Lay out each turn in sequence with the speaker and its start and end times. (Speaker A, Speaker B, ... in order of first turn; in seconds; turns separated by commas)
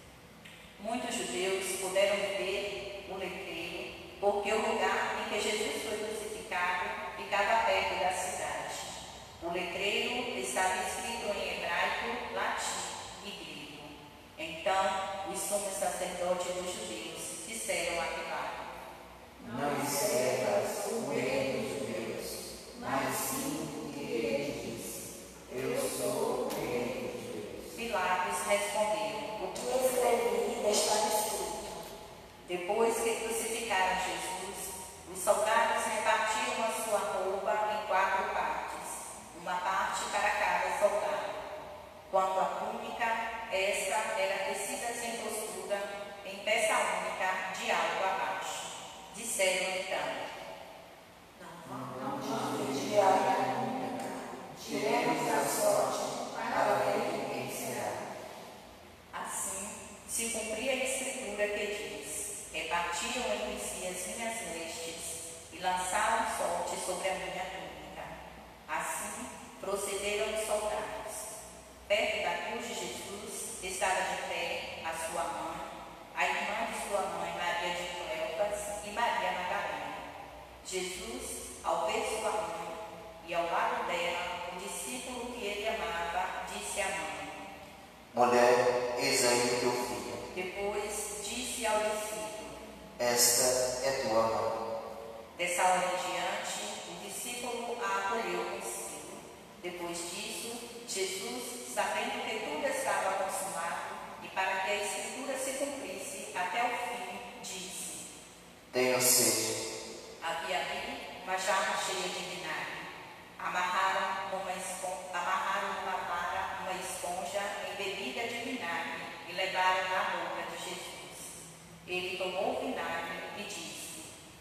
Speaker A: 0.8-18.7, Speaker B: 19.4-27.8, Speaker A: 27.8-29.6, Speaker C: 29.5-31.9, Speaker A: 32.5-41.4, Speaker A: 42.1-50.3, Speaker C: 51.4-58.1, Speaker B: 51.6-58.0, Speaker A: 59.1-68.1, Speaker A: 68.7-71.3, Speaker A: 71.9-80.0, Speaker A: 80.6-87.4, Speaker B: 88.1-90.2, Speaker A: 90.3-92.6, Speaker B: 93.0-94.5, Speaker A: 95.3-108.0, Speaker B: 108.7-109.6, Speaker A: 110.2-121.3, Speaker A: 121.8-124.1